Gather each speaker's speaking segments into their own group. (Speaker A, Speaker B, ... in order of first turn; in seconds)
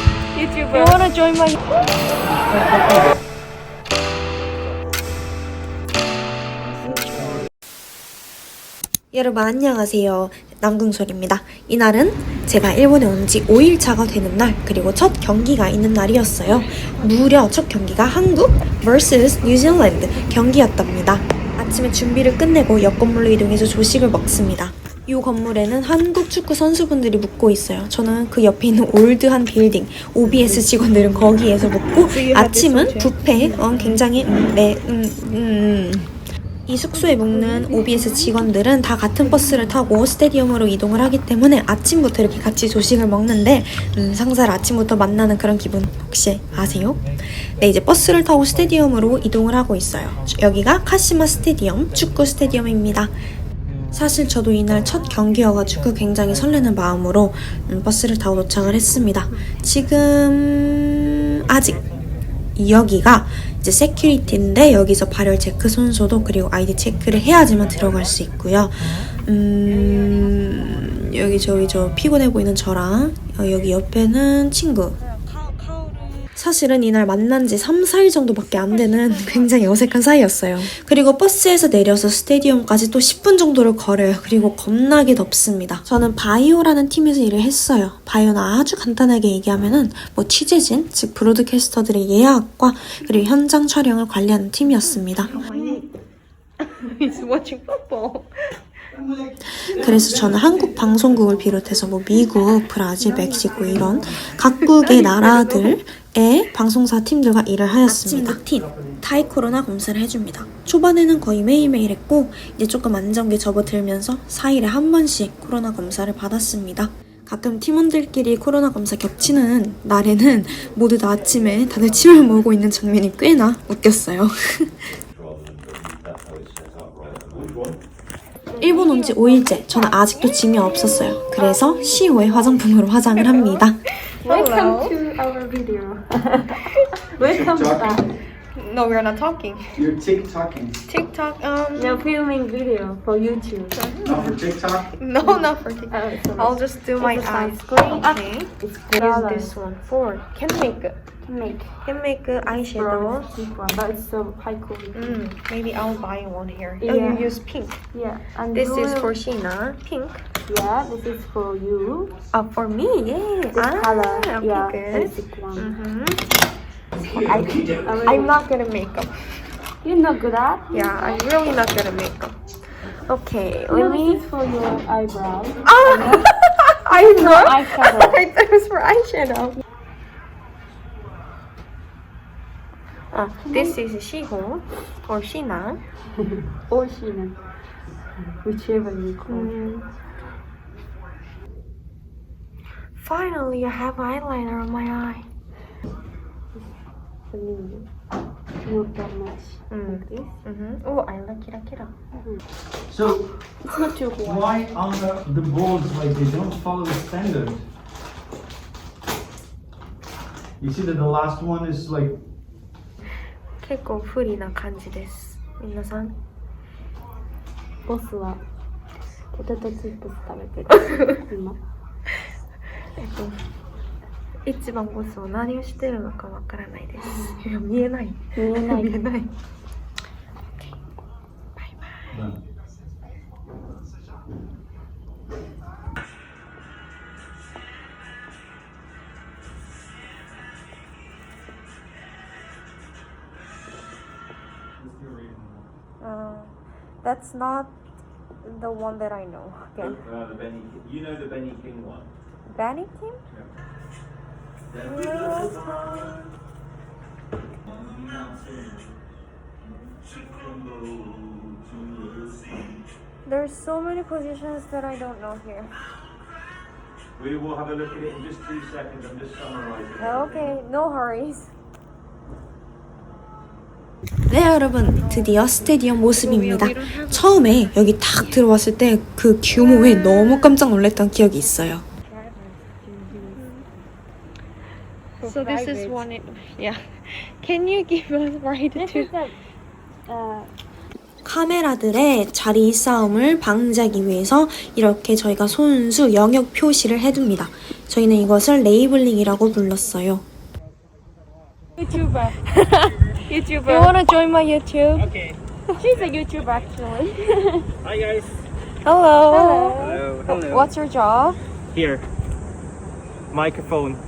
Speaker A: 0.3-1.0, 36.9-38.5, 39.2-39.6, 128.5-129.6, 134.2-138.1, 141.7-144.4, 145.2-149.5, 151.2-151.8, 152.4-155.2, 156.8-157.3, 157.9-159.2, 160.4-162.1, 163.5-165.7, 167.8-168.3, 169.8-171.2, 173.7-176.2, 176.9-178.2, 183.4-183.8, 186.5-187.4, 188.1-189.5, 197.3-197.8, 198.6-200.3, 202.1-202.4, 203.6-204.6, 217.8-218.4, 219.3-221.6, 227.0-227.4, 228.3-228.9, 282.1-283.4, 285.2-286.1, 288.7-289.4, 290.1-290.5, 303.3-303.9, 305.8-307.7, 309.3-309.9
Speaker B: 0.7-1.5, 6.9-7.3, 31.9-34.0, 75.3-76.2, 79.2-79.5, 94.8-95.9, 96.6-98.5, 103.0-105.8, 107.8-108.4, 129.5-131.9, 133.2-134.9, 138.5-139.8, 140.9-142.0, 143.7-144.2, 144.8-151.0, 151.8-153.4, 154.9-157.8, 158.5-160.2, 162.3-166.2, 167.0-169.1, 170.7-174.2, 175.6-179.6, 183.1-185.8, 189.3-189.9, 193.0-195.3, 199.7-201.9, 213.6-216.1, 222.9-223.4, 224.4-229.3, 231.6-232.3, 246.0-247.7, 248.4-250.0, 252.5-253.2, 254.7-256.3, 263.2-265.8, 269.9-271.5, 274.8-275.6, 276.1-277.7, 279.5-280.6, 283.3-283.6, 285.2-289.1, 301.8-305.1, 308.8-311.4
Speaker C: 2.4-3.1, 99.1-100.3, 108.4-109.0, 137.2-138.1, 139.8-140.8, 144.0-144.9, 202.9-203.3, 204.2-207.6, 210.6-212.2
Speaker D: 9.1-53.1, 53.9-61.8, 62.5-75.0, 76.3-95.4, 99.6-125.0, 128.6-133.8, 274.3-281.8, 291.2-300.2
Speaker E: 125.0-127.8, 249.8-252.1, 254.7-256.0, 260.2-262.3, 267.2-270.6
Speaker F: 307.8-308.3, 309.8-310.7, 311.7-312.0, 313.3-314.0